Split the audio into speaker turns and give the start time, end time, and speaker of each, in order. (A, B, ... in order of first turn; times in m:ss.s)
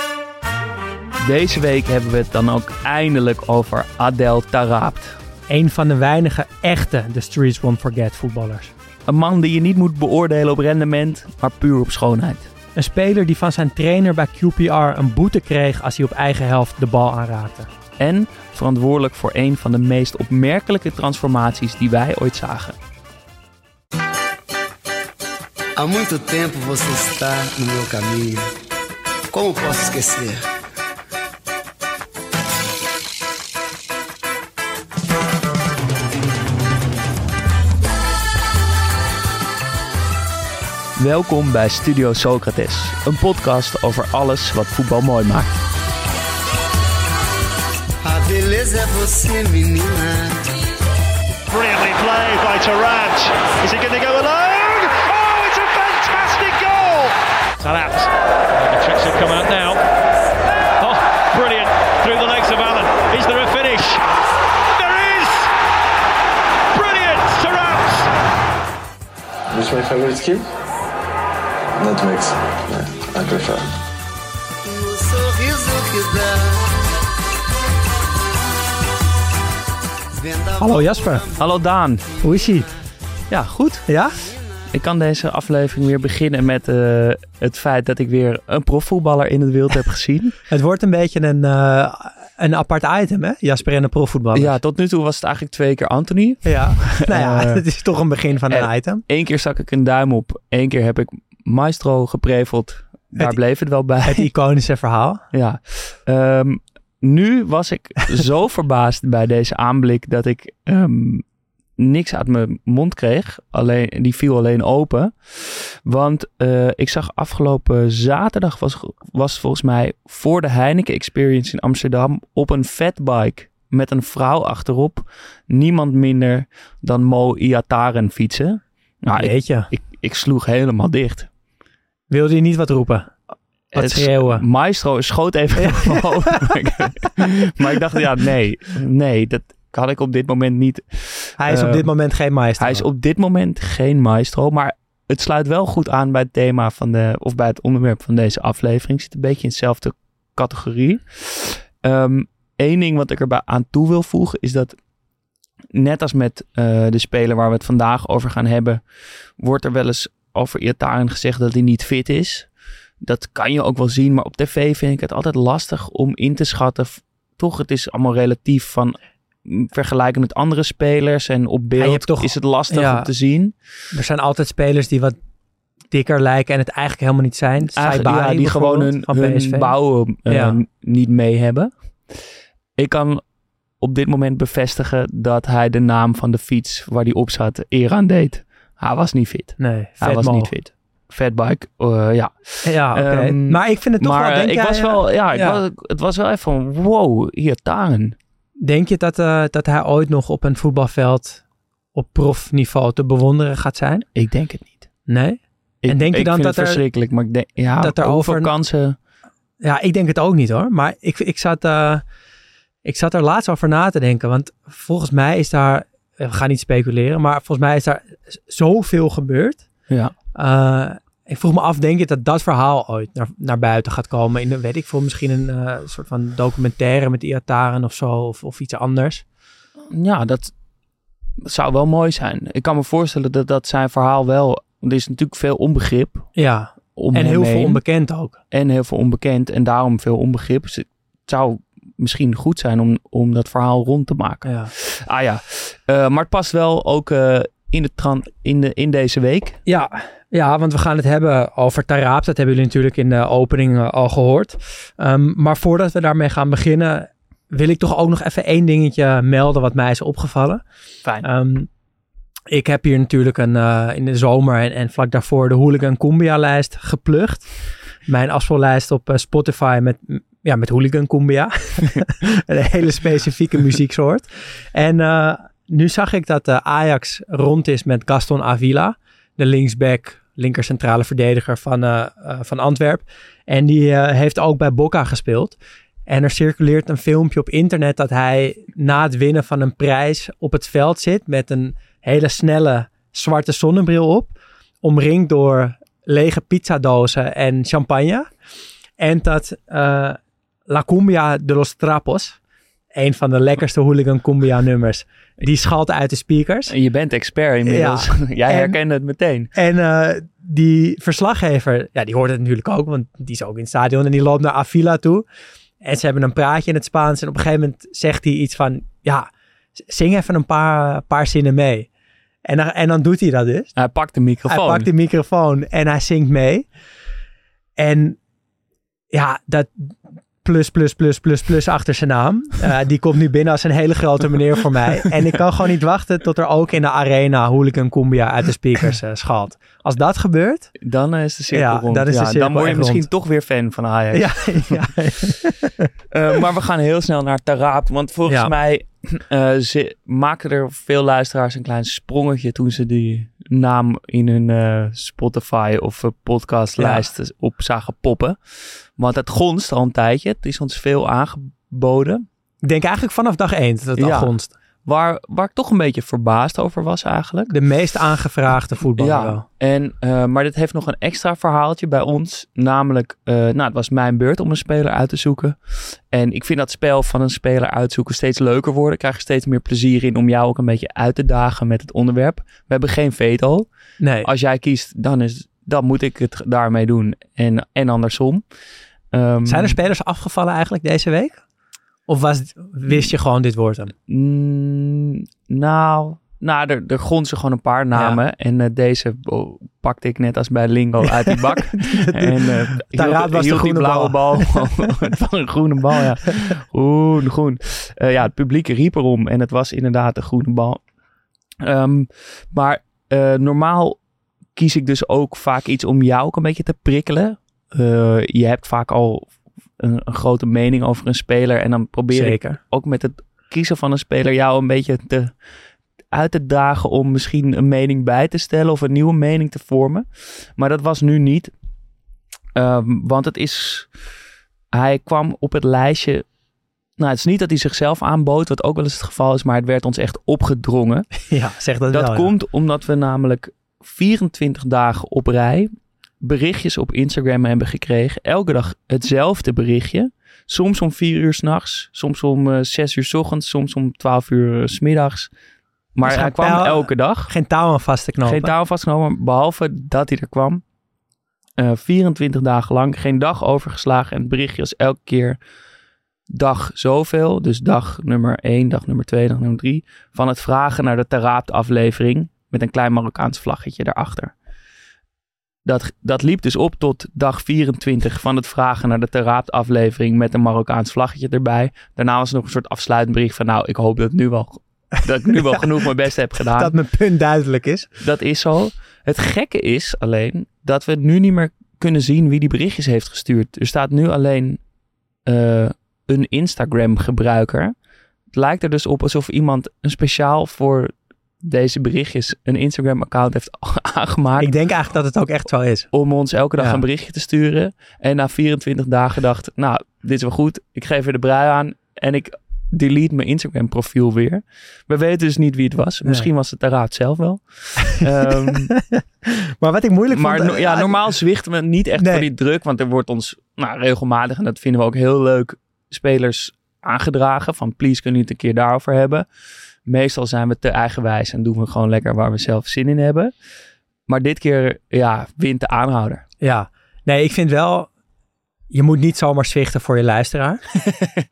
0:01.2-0:05.2 A
0:05.5-0:08.7 B
0:09.1-0:12.5 A
0:12.8-0:17.7 B
0:18.0-0:22.8 A
0:25.8-0:28.5 C
0:29.3-0:30.4 C
0:41.0-0:45.5 A
0:48.0-0:50.5 C
0:51.5-0:59.8 D
1:00.8-1:04.0 D
1:04.7-1:05.5 D
1:06.7-1:08.1 D
1:09.5-1:10.5 E
1:11.8-1:13.7 E
1:14.6-1:16.7 C
1:20.2-1:21.4 C
1:20.6-1:21.2 B
1:21.4-1:22.0 A
1:22.2-1:22.7 B
1:23.3-1:23.8 A
1:23.9-1:24.2 B
1:24.7-1:30.4 A
1:30.5-1:34.6 B
1:34.3-1:37.6 A
1:36.4-1:39.0 B
1:38.5-1:44.3 A
1:44.0-1:45.2 B
1:45.3-1:51.2 A
1:51.8-2:11.3 A
2:09.2-2:09.7 B
2:12.1-2:13.1 B
2:13.7-2:21.9 A
2:13.7-2:14.4 B
2:15.6-2:16.3 B
2:21.4-2:22.8 B
2:22.6-2:34.8 A
2:35.7-2:42.5 A
2:43.0-2:53.5 A
2:51.8-2:53.1 B
2:53.9-2:55.2 B
2:55.9-2:59.7 B
2:57.7-3:02.2 A
3:00.2-3:00.6 B
3:02.8-3:03.2 A
3:03.8-3:18.2 A
3:09.6-3:10.5 B
3:12.6-3:15.6 B
3:18.6-3:21.4 B
3:21.9-3:24.0 B
3:24.1-3:24.9 A
3:25.1-3:26.8 B
3:25.8-3:29.0 A
3:27.8-3:28.5 B
3:29.6-3:32.0 B
3:32.8-3:39.6 B
3:40.3-3:49.2 B
3:49.9-3:50.5 A
3:51.4-3:56.3 A
3:56.4-3:58.4 B
3:56.9-3:57.8 A
3:58.5-4:09.6 A
4:04.4-4:04.7 B
4:09.6-4:20.6 B
4:21.2-4:21.7 B
4:22.5-4:27.5 B
4:28.0-4:58.3 B
4:59.0-5:02.4 B
5:02.9-5:06.7 B
5:06.7-5:09.5 A
5:07.6-5:08.8 B
5:09.5-5:15.2 B
5:15.8-5:19.3 B
5:19.8-5:21.9 B
5:22.4-5:23.7 B
5:23.7-5:24.9 A
5:24.4-5:26.7 B
5:27.8-5:28.2 B
5:29.1-5:40.7 B
5:40.8-5:44.9 A
5:41.5-5:43.0 B
5:44.1-5:45.9 B
5:46.1-6:02.2 A
5:48.3-5:48.5 B
5:56.8-5:57.0 B
6:02.6-6:04.5 B
6:04.0-6:04.3 A
6:04.8-6:07.5 A
6:07.5-6:09.4 B
6:09.0-6:23.7 A
6:24.0-6:24.3 B
6:24.2-6:28.4 A
6:29.1-6:29.8 A
6:29.4-6:31.4 B
6:32.1-6:33.9 B
6:34.1-6:50.8 A
6:41.1-6:44.8 B
6:51.6-6:54.0 A
6:54.5-7:05.3 A
7:02.1-7:02.6 B
7:06.1-7:11.5 A
7:12.5-7:13.9 A
7:14.7-7:16.2 A
7:17.0-7:21.1 A
7:21.3-7:22.3 B
7:21.9-7:35.3 A
7:35.9-7:37.3 A
7:36.0-7:38.5 B
7:38.2-7:40.6 A
7:41.6-7:45.4 A
7:46.3-7:54.3 A
7:55.6-8:06.7 A
8:05.3-8:05.6 B
8:06.5-8:07.9 B
8:08.0-8:14.6 A
8:15.2-8:17.7 A
8:18.3-8:24.5 A
8:24.4-8:25.9 B
8:25.9-8:38.7 A
8:26.6-8:26.8 B
8:37.9-8:41.0 B
8:40.1-8:49.2 A
8:42.0-8:42.2 B
8:49.8-8:53.3 A
8:54.1-8:56.2 A
8:56.4-8:57.9 B
8:58.7-9:00.6 B